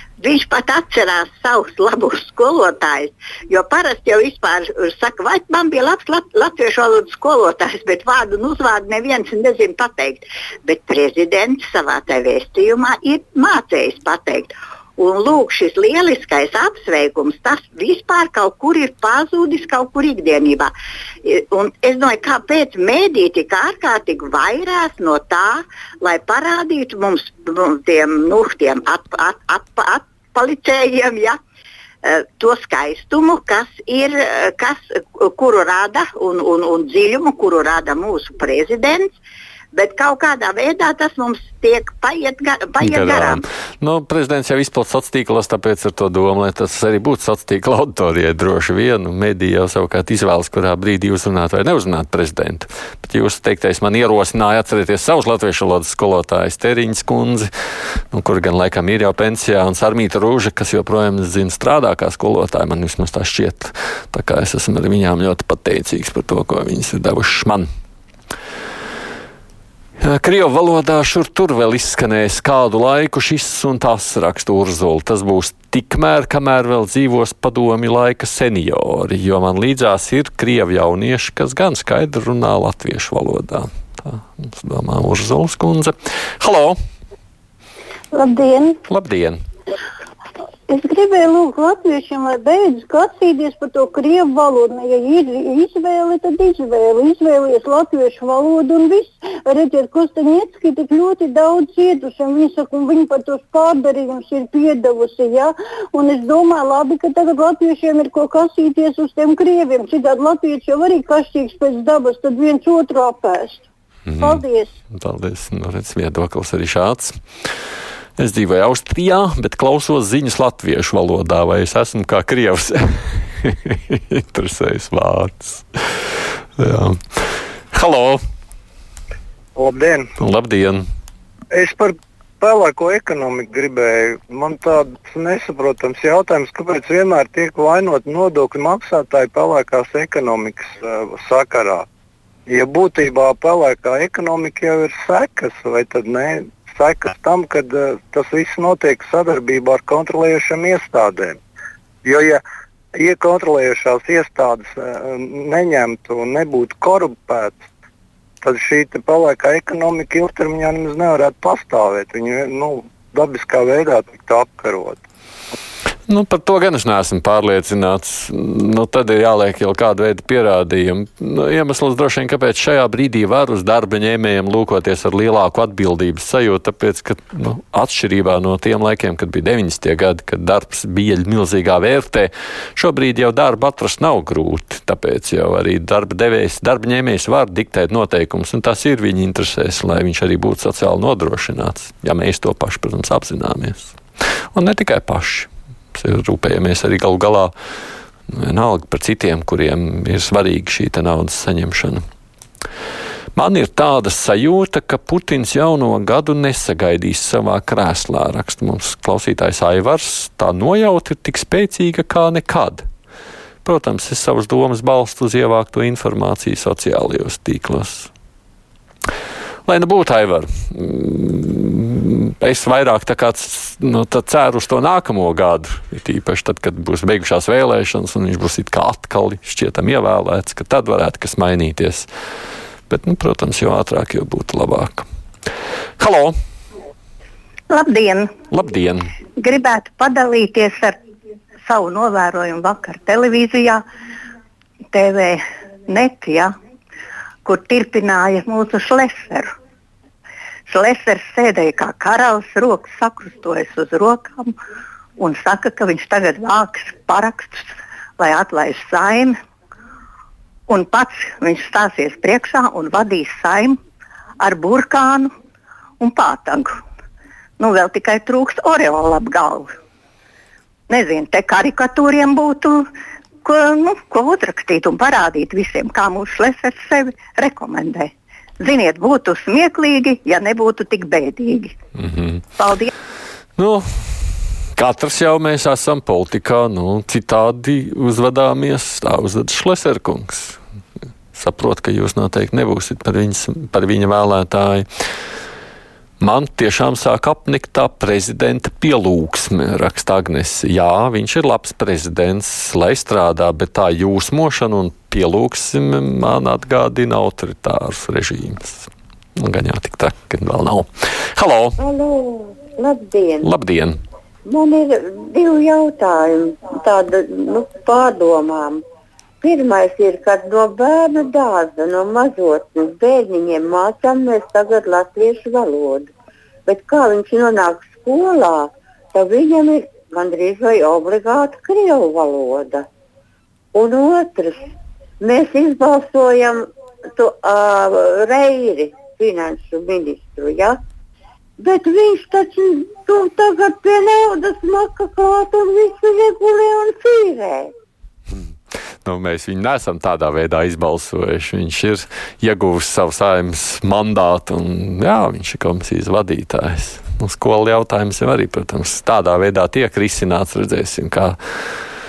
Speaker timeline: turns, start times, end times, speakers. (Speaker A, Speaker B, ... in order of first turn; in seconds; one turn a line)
Speaker A: 0.2-20.7
Speaker A: 21.2-31.4
Speaker A: 32.0-39.1
Speaker A: 39.7-43.4
Speaker B: 42.8-57.5
Speaker B: 58.1-67.7
Speaker B: 70.0-86.8
Speaker C: 88.1-88.8
Speaker B: 88.9-89.4
Speaker C: 90.7-114.7
Speaker B: 114.1-117.1
Speaker B: 118.2-127.0
Speaker B: 127.7-128.2
Speaker D: 129.6-130.1
Speaker B: 130.2-130.8
Speaker D: 131.5-141.8
Speaker D: 142.5-151.4
Speaker D: 152.0-152.4
Speaker D: 152.9-157.6
Speaker D: 158.4-165.0
Speaker B: 166.1-194.0
Speaker B: 194.5-197.5
Speaker B: 198.3-202.0
Speaker B: 203.3-212.8
Speaker B: 213.6-218.1
Speaker B: 219.7-232.1
Speaker B: 232.9-235.1
Speaker B: 236.0-236.3
Speaker E: 237.7-238.3
Speaker B: 238.5-239.1
Speaker E: 239.4-240.9
Speaker E: 241.7-243.8
Speaker E: 244.9-246.5
Speaker E: 247.4-249.5
Speaker E: 250.7-254.5
Speaker E: 255.2-257.6
Speaker E: 258.2-259.4
Speaker E: 260.7-263.8
Speaker E: 264.4-265.3
Speaker E: 266.0-266.7
Speaker E: 267.6-269.7
Speaker E: 270.9-272.8
Speaker E: 273.4-281.7
Speaker B: 282.0-282.4
Speaker E: 282.6-282.9
Speaker B: 283.6-290.6
Speaker B: 291.3-294.9
Speaker B: 296.2-311.8
Speaker F: 311.8-313.5
Speaker B: 313.4-314.0
Speaker F: 314.4-318.8
Speaker F: 319.4-326.1
Speaker F: 326.6-332.9
Speaker F: 333.7-334.6
Speaker F: 335.2-340.8
Speaker F: 341.6-347.7
Speaker B: 349.0-361.4